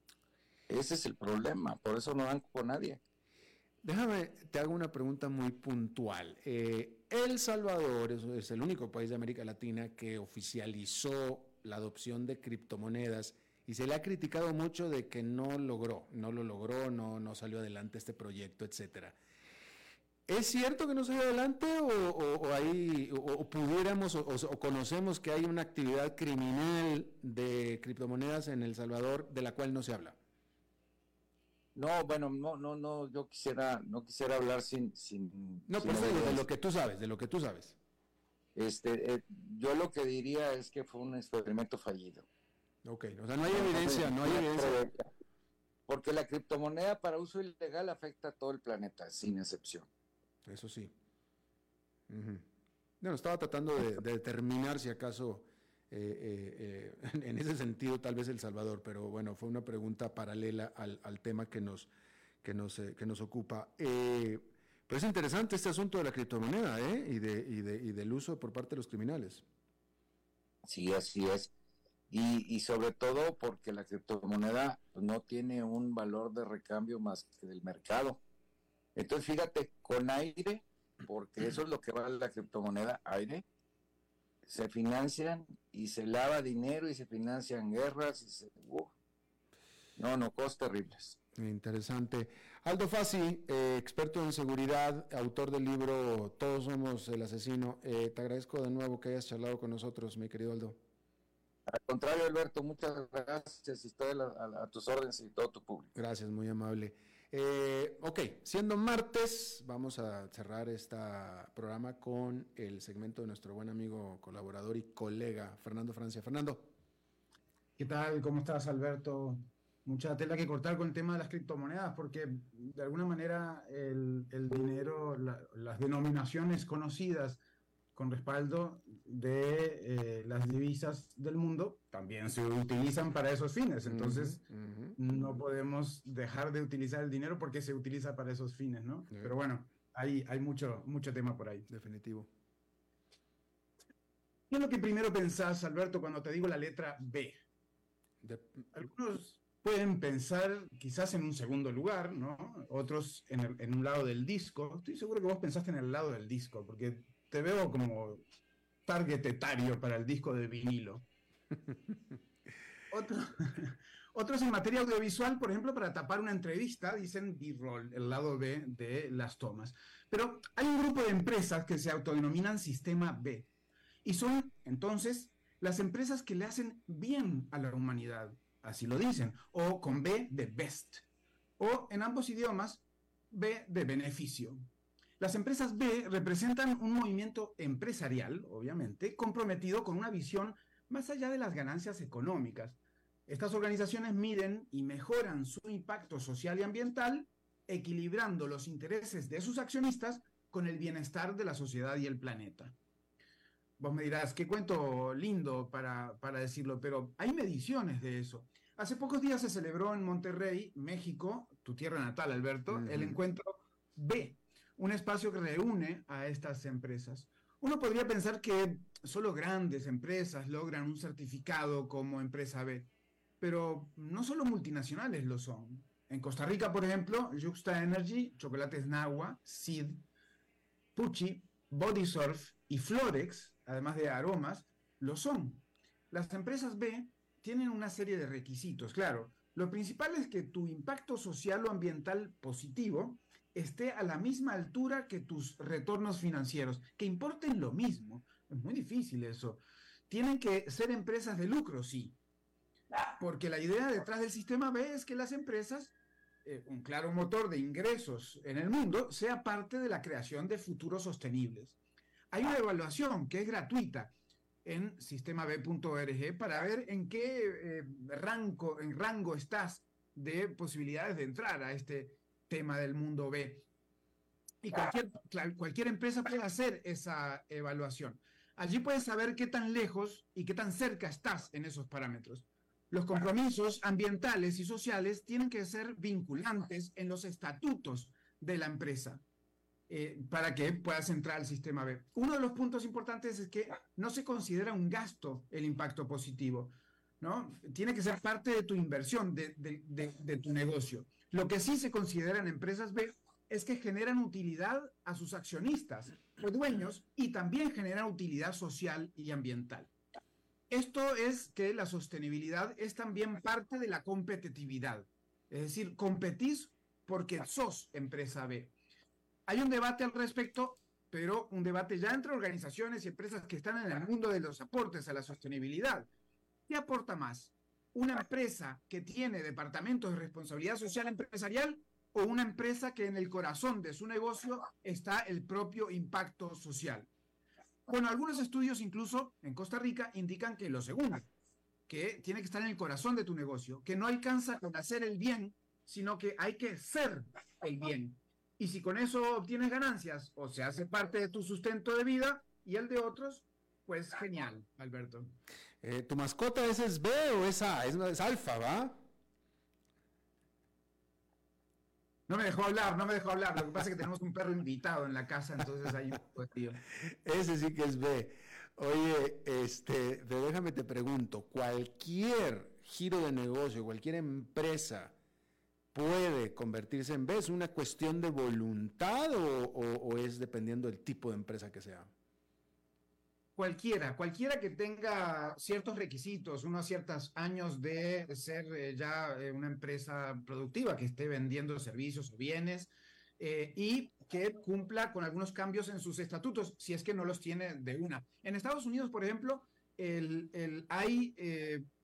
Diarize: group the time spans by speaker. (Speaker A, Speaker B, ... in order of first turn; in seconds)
Speaker A: 0.7-3.0, 31.8-36.4, 38.5-42.3, 43.5-45.1, 45.9-49.9, 70.6-71.5, 72.1-78.2, 79.0-83.5, 84.5-88.9, 90.0-91.2, 101.7-105.9
Speaker B: 3.8-19.2, 20.3-30.2, 35.7-37.8, 42.8-44.8, 50.5-50.9, 52.1-52.5, 53.0-61.9, 62.4-69.4, 91.4-100.8, 106.0-116.7, 133.9-135.4, 141.7-142.3, 148.2-148.8, 212.7-213.2, 355.8-359.0, 367.2-375.1, 375.9-382.1
Speaker C: 117.8-127.4, 128.0-134.4, 135.0-141.6, 144.5-147.4, 148.7-158.2, 158.9-161.1, 162.9-173.5, 174.0-181.0, 181.6-184.7, 185.2-202.8, 203.8-230.1, 231.0-252.2, 253.2-261.8, 262.3-264.1, 264.6-273.7, 274.6-289.2, 289.9-309.9, 310.7-318.8, 319.5-326.1, 326.7-337.1, 337.9-341.3, 341.9-355.4, 362.3-366.8, 383.6-401.9